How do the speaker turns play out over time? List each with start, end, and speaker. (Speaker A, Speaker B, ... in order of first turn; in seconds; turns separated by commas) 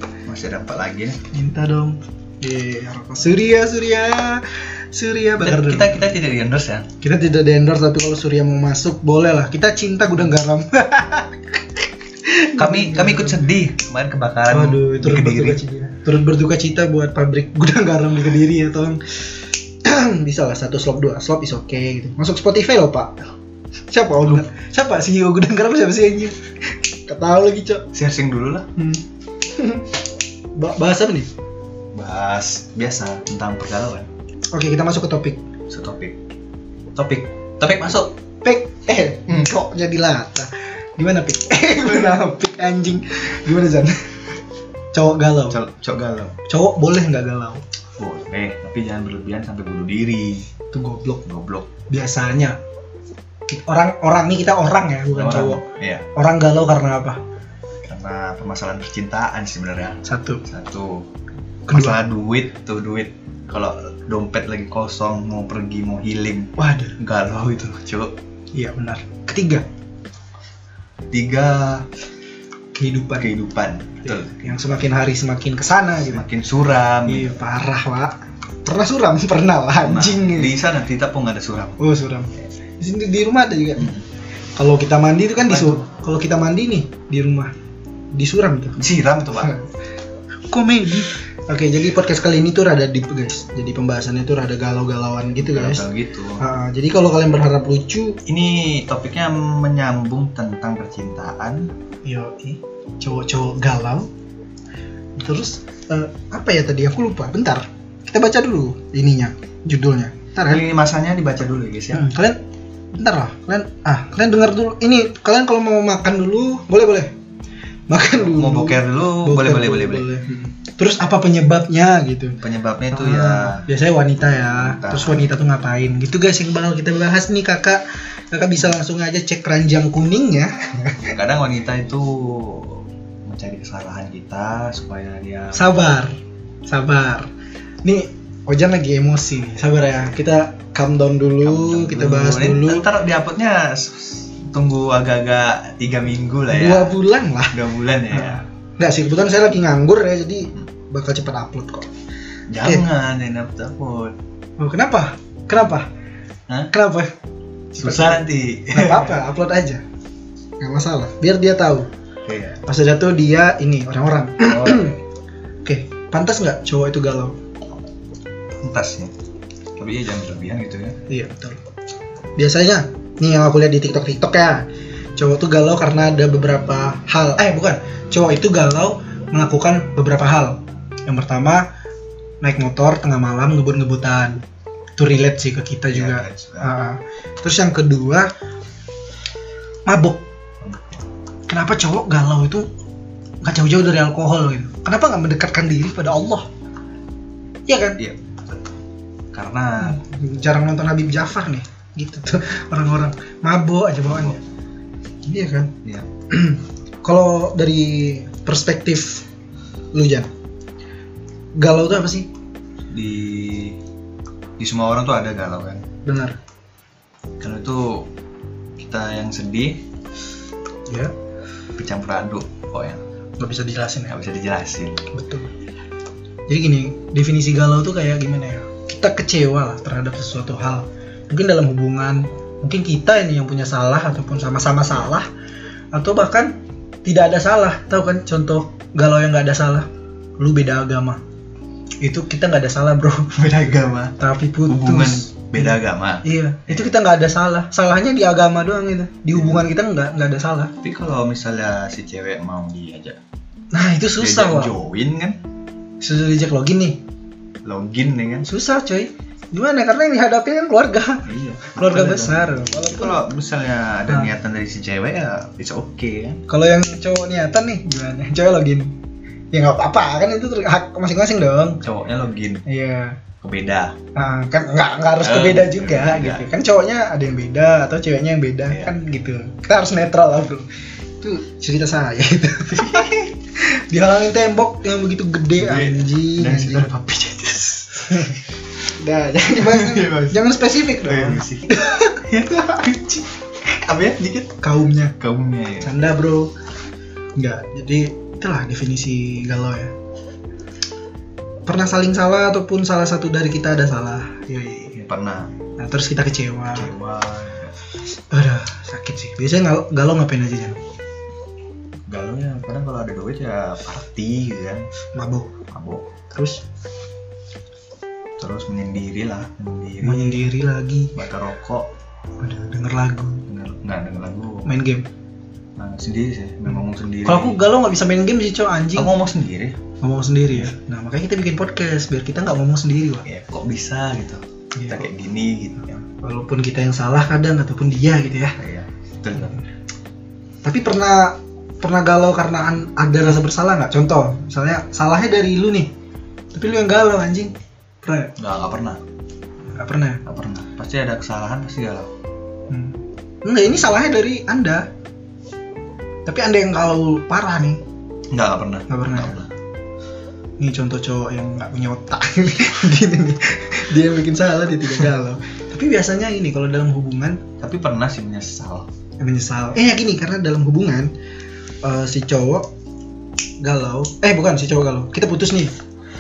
Speaker A: 0.3-1.2, Speaker B: 1.3-6.1, Speaker A: 5.4-6.9, Speaker B: 7.0-11.6, Speaker B: 12.3-13.4, Speaker A: 12.5-15.6, Speaker B: 14.5-19.2, Speaker B: 19.9-23.2, Speaker B: 23.9-27.9, Speaker A: 27.9-28.7, Speaker B: 28.8-29.9, Speaker B: 30.6-31.3, Speaker A: 31.9-34.1, Speaker B: 34.5-35.4, Speaker A: 35.7-36.1, Speaker A: 37.0-38.1, Speaker B: 38.4-44.4, Speaker B: 44.9-45.6, Speaker A: 45.5-46.4, Speaker B: 46.5-47.6, Speaker A: 48.0-50.5, Speaker B: 50.7-51.2, Speaker A: 51.2-51.7, Speaker B: 51.9-52.6, Speaker B: 53.5-55.6, Speaker A: 55.1-56.0, Speaker B: 56.1-57.2, Speaker A: 57.8-61.1, Speaker B: 60.0-60.4, Speaker B: 61.7-62.0, Speaker A: 61.7-68.1, Speaker B: 66.6-67.0, Speaker B: 68.5-69.7, Speaker A: 71.1-71.9, Speaker B: 72.8-73.3, Speaker A: 73.2-74.8, Speaker B: 74.0-76.3, Speaker A: 76.0-77.4, Speaker B: 77.1-80.5, Speaker A: 79.8-81.8, Speaker B: 81.8-83.9, Speaker A: 83.8-84.1, Speaker B: 84.6-87.5, Speaker A: 85.4-85.8, Speaker B: 88.1-88.8, Speaker A: 88.8-89.6, Speaker B: 89.3-89.6, Speaker B: 90.5-95.9, Speaker A: 95.4-96.4, Speaker B: 96.4-98.2, Speaker A: 98.3-101.7, Speaker B: 102.0-104.1, Speaker B: 105.2-110.6, Speaker A: 110.5-112.1, Speaker B: 111.9-112.4, Speaker B: 112.9-117.1, Speaker B: 117.9-122.4, Speaker A: 118.1-120.1, Speaker A: 122.4-123.7, Speaker B: 122.9-131.2, Speaker A: 124.6-125.3, Speaker A: 131.0-135.8, Speaker B: 135.5-136.1, Speaker B: 136.7-137.3, Speaker B: 137.8-142.9, Speaker A: 141.4-147.0, Speaker B: 146.5-147.6, Speaker A: 147.5-148.4, Speaker B: 148.1-151.9, Speaker A: 152.5-154.2, Speaker B: 154.6-155.9, Speaker B: 156.7-157.1, Speaker A: 157.8-159.2, Speaker B: 157.8-159.8, Speaker B: 160.6-161.9, Speaker A: 162.3-162.6, Speaker B: 162.7-165.0, Speaker A: 164.5-164.9, Speaker B: 165.7-167.4, Speaker A: 168.6-169.1, Speaker A: 169.8-171.0, Speaker B: 171.1-171.6, Speaker B: 172.4-181.7, Speaker B: 182.4-184.4, Speaker B: 185.0-188.3, Speaker A: 185.9-186.7, Speaker B: 189.9-190.2, Speaker A: 190.6-191.1, Speaker B: 191.5-192.7, Speaker B: 193.4-196.5, Speaker B: 197.7-198.0, Speaker A: 199.3-200.0, Speaker B: 199.8-204.4, Speaker A: 204.1-204.3, Speaker B: 205.3-205.7, Speaker B: 206.3-209.2, Speaker B: 209.9-210.3, Speaker B: 211.6-212.3, Speaker A: 212.9-213.8, Speaker A: 214.6-215.8, Speaker B: 216.1-216.3, Speaker A: 217.4-218.1, Speaker A: 218.8-219.8, Speaker A: 221.8-223.0, Speaker B: 223.4-224.2, Speaker A: 224.1-225.1, Speaker B: 225.1-225.5, Speaker B: 226.5-235.3, Speaker B: 235.9-236.5, Speaker B: 237.1-239.9, Speaker B: 240.4-241.2, Speaker B: 242.0-243.6, Speaker A: 243.3-246.9, Speaker B: 244.2-250.7, Speaker A: 249.3-249.7, Speaker A: 250.8-253.2, Speaker B: 253.7-254.8, Speaker A: 254.2-255.4, Speaker B: 256.0-257.0, Speaker A: 257.6-258.5, Speaker B: 258.4-263.3, Speaker A: 261.2-266.4, Speaker B: 266.5-268.9, Speaker B: 269.5-271.8, Speaker A: 271.8-272.7, Speaker B: 272.7-273.2, Speaker A: 273.4-274.0, Speaker B: 274.1-280.7, Speaker A: 275.2-276.4, Speaker A: 278.7-278.9, Speaker B: 281.2-286.9, Speaker A: 282.7-283.3, Speaker A: 285.6-288.4, Speaker B: 288.1-292.2, Speaker A: 289.5-294.6, Speaker B: 294.6-295.1, Speaker A: 295.2-295.9, Speaker B: 295.8-296.5, Speaker B: 297.4-299.9, Speaker B: 301.7-305.0, Speaker A: 304.9-305.5, Speaker B: 305.8-306.9, Speaker A: 306.7-307.7, Speaker B: 308.3-310.8, Speaker A: 312.1-314.9, Speaker B: 315.1-315.5, Speaker A: 315.7-316.1, Speaker B: 316.3-316.6, Speaker A: 318.4-320.5, Speaker B: 320.0-321.1, Speaker A: 321.1-321.9, Speaker B: 322.4-323.4, Speaker A: 323.5-324.7, Speaker B: 324.6-325.1, Speaker A: 325.8-327.6, Speaker B: 327.3-329.1, Speaker A: 328.9-329.8, Speaker B: 330.0-333.2, Speaker A: 333.2-336.0, Speaker B: 334.8-335.1, Speaker B: 336.2-338.6, Speaker A: 338.6-339.6, Speaker B: 340.6-345.9, Speaker B: 346.5-348.3, Speaker A: 348.4-349.0, Speaker B: 349.8-350.2, Speaker A: 350.3-352.1, Speaker B: 352.7-354.9, Speaker B: 356.3-357.8, Speaker A: 358.3-359.5, Speaker B: 358.9-359.4, Speaker B: 360.6-367.4, Speaker A: 367.6-368.9, Speaker B: 369.2-371.1, Speaker B: 371.8-372.7, Speaker B: 373.6-375.7